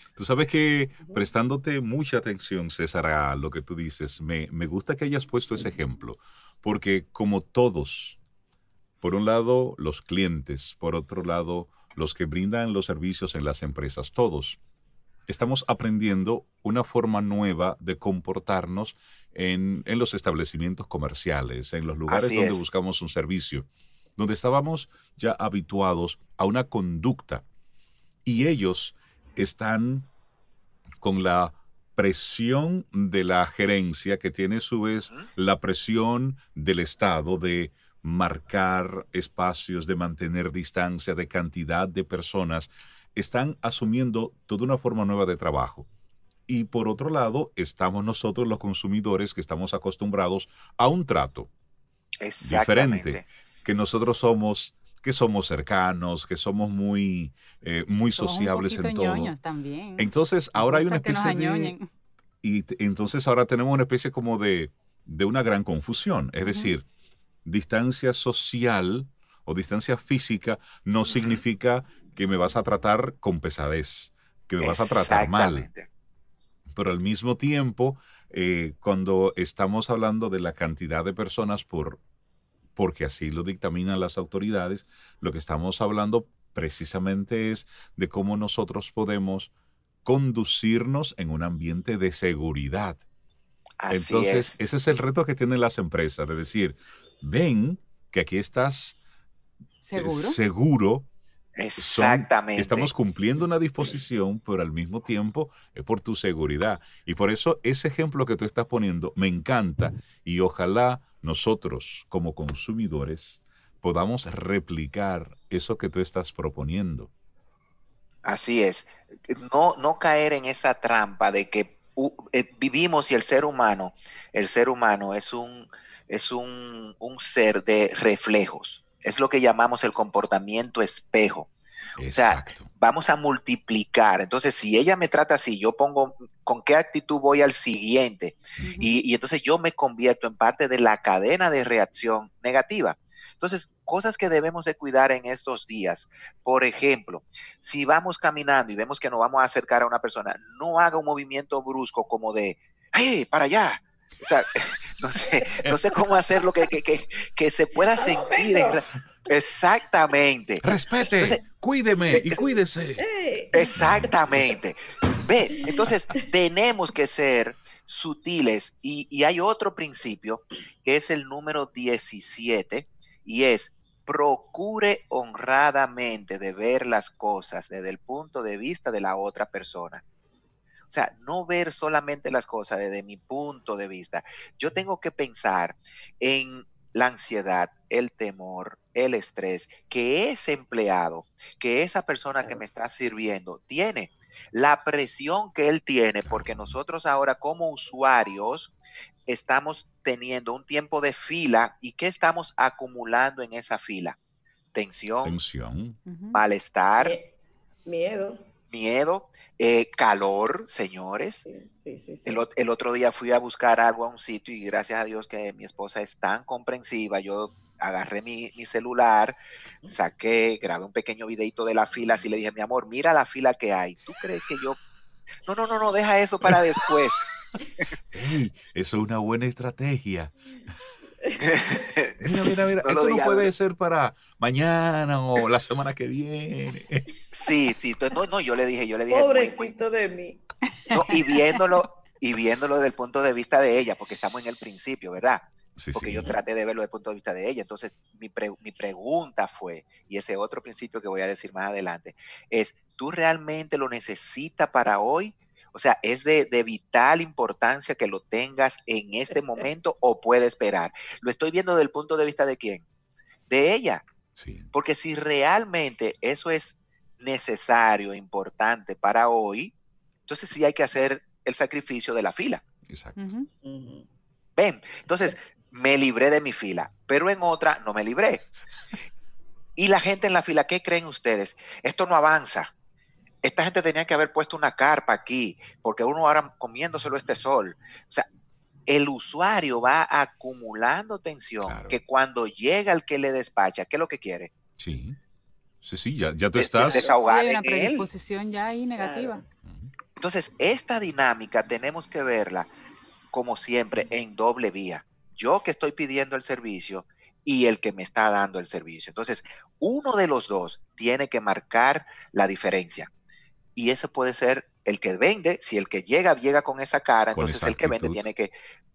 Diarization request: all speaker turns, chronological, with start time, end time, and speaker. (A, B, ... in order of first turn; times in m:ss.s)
0:00.2-0:08.2 A
0:01.0-0:01.3 B
0:09.0-0:14.6 A
0:15.3-0:27.4 A
0:22.1-0:22.6 C
0:28.2-0:30.1 A
0:31.0-0:45.9 A
0:46.5-0:51.5 A
0:52.2-0:53.3 C
0:52.4-0:59.3 A
0:58.1-1:01.9 D
1:00.0-1:01.8 A
1:02.4-1:06.9 A
1:06.5-1:06.7 D
1:07.4-1:15.7 A
1:14.6-1:15.9 C
1:16.7-1:22.0 A
1:22.8-1:29.5 A
1:30.0-1:33.0 A
1:33.8-1:34.6 C
1:33.9-1:39.0 A
1:39.8-1:40.4 D
1:40.0-1:41.1 A
1:41.6-1:42.9 C
1:41.8-1:57.1 A
1:58.2-2:11.5 C
2:12.0-2:12.7 A
2:12.1-2:41.4 C
2:18.6-2:19.0 D
2:38.0-2:38.8 B
2:40.6-2:43.1 A
2:42.1-2:42.4 C
2:42.1-2:44.0 B
2:43.5-3:00.0 C
2:43.6-2:44.6 A
3:00.9-3:18.7 C
3:16.2-3:16.8 A
3:19.3-3:24.2 C
3:24.7-3:25.4 C
3:25.2-3:26.0 A
3:26.1-3:26.4 D
3:26.3-3:27.2 C
3:27.0-3:27.3 B
3:27.8-3:28.5 B
3:28.7-3:31.4 C
3:31.4-3:32.4 B
3:32.2-3:44.8 C
3:45.5-3:47.3 C
3:48.1-3:50.3 A
3:51.2-3:51.9 B
3:51.5-3:53.5 C
3:52.2-3:57.1 A
3:57.3-3:59.8 C
3:59.1-4:00.4 B
4:00.9-4:22.8 C
4:05.8-4:06.4 A
4:23.5-4:24.0 C
4:24.4-4:24.7 A
4:24.7-4:29.7 C
4:30.3-4:32.6 C
4:32.9-4:33.2 A
4:33.2-4:33.5 D
4:33.6-4:34.1 B
4:34.6-4:38.5 C
4:39.8-4:42.7 C
4:43.4-4:48.3 C
4:48.9-4:54.5 C
4:51.6-4:52.0 A
4:54.8-4:55.2 A
4:55.8-4:57.1 A
4:56.6-4:58.1 C
4:56.8-4:57.1 B
4:57.1-4:59.4 D
4:59.0-4:59.4 B
5:00.2-5:02.7 C
5:03.3-5:13.1 C
5:13.8-5:18.5 C
5:17.3-5:18.3 A